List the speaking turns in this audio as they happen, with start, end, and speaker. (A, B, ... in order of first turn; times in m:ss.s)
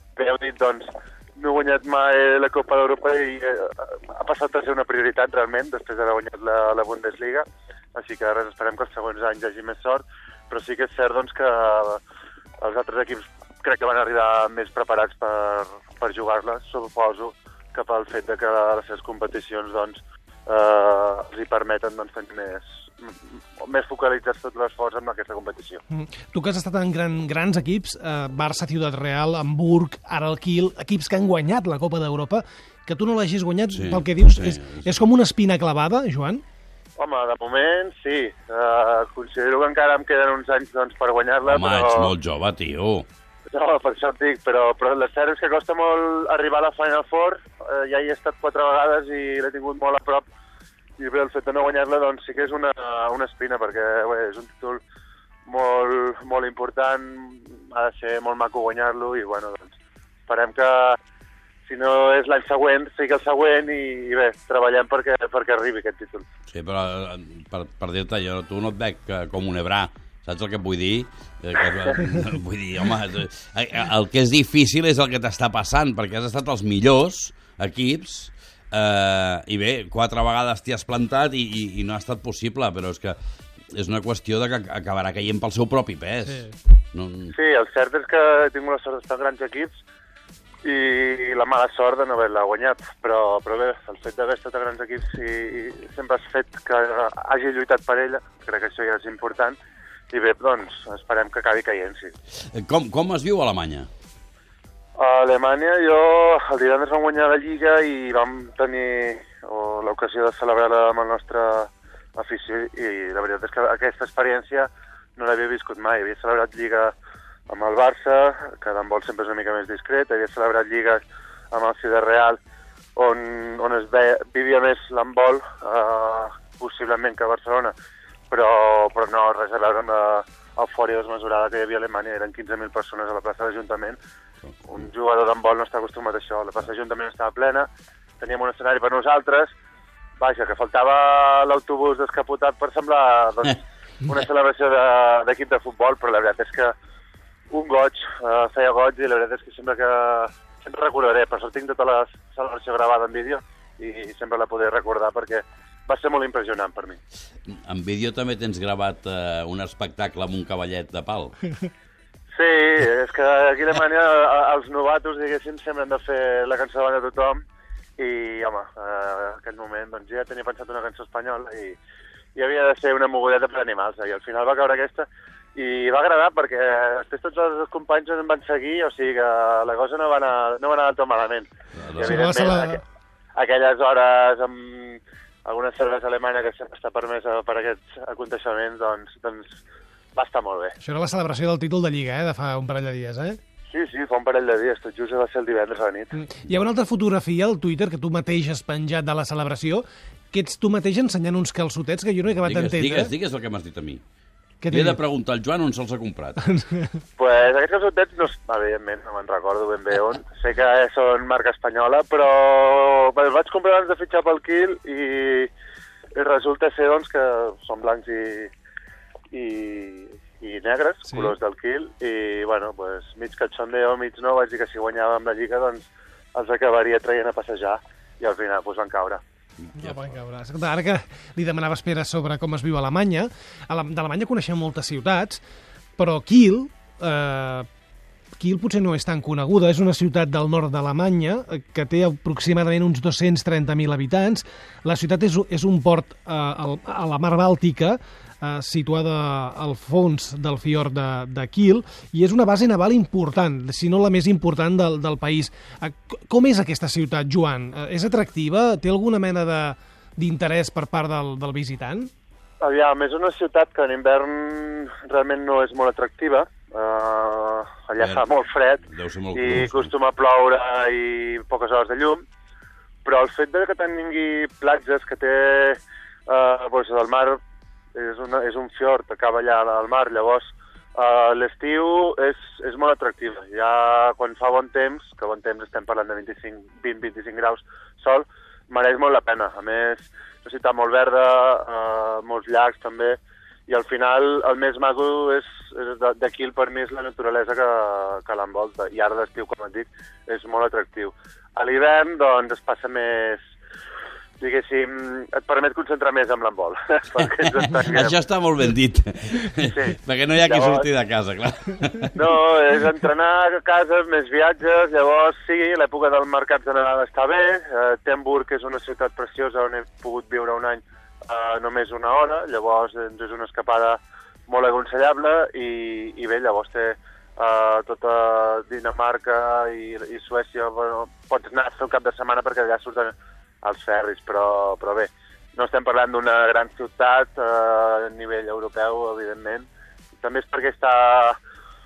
0:00.2-0:12.0 A
0:12.6-0:25.8 A
0:25.9-0:36.4 B
0:33.7-0:34.9 C
0:37.0-0:42.1 A
0:41.4-0:43.0 C
0:43.5-0:50.2 A
0:51.0-0:54.8 A
0:55.4-0:59.7 A
1:00.3-1:01.0 A
1:01.6-1:06.2 A
1:06.5-1:23.2 C
1:23.7-1:27.3 C
1:26.2-1:26.5 B
1:27.3-1:29.8 A
1:30.6-1:39.6 A
1:40.1-1:42.1 A
1:42.5-1:43.9 C
1:45.0-1:56.9 A
1:57.5-2:01.0 A
2:01.5-2:02.4 A
2:03.0-2:07.7 A
2:08.3-2:14.0 A
2:14.7-2:17.7 A
2:18.2-2:19.5 A
2:20.2-2:26.7 A
2:27.5-2:37.0 A
2:37.5-2:41.4 C
2:42.3-2:47.4 A
2:48.0-2:51.8 A
2:52.3-3:02.8 A
3:01.8-3:02.2 C
3:02.0-3:02.8 B
3:03.3-3:09.6 A
3:10.1-3:10.8 A
3:10.8-3:13.4 B
3:13.7-3:16.1 A
3:16.2-3:23.1 B
3:22.4-3:24.0 C
3:24.6-3:25.0 B
3:24.7-3:26.4 C
3:26.4-3:26.9 B
3:27.2-3:35.5 A
3:36.1-3:38.5 A
3:39.3-3:49.2 A
3:41.1-3:41.3 B
3:49.6-3:50.1 C
3:49.8-3:55.4 B
3:56.0-3:57.7 B
3:58.4-4:22.1 B
4:22.6-4:32.2 A
4:28.0-4:28.3 C
4:28.8-4:29.9 C
4:33.0-4:37.4 A
4:38.0-5:03.4 A
5:04.4-5:08.2 A
5:07.8-5:12.1 C
5:09.6-5:10.9 A
5:12.1-5:39.7 A
5:40.2-5:41.4 A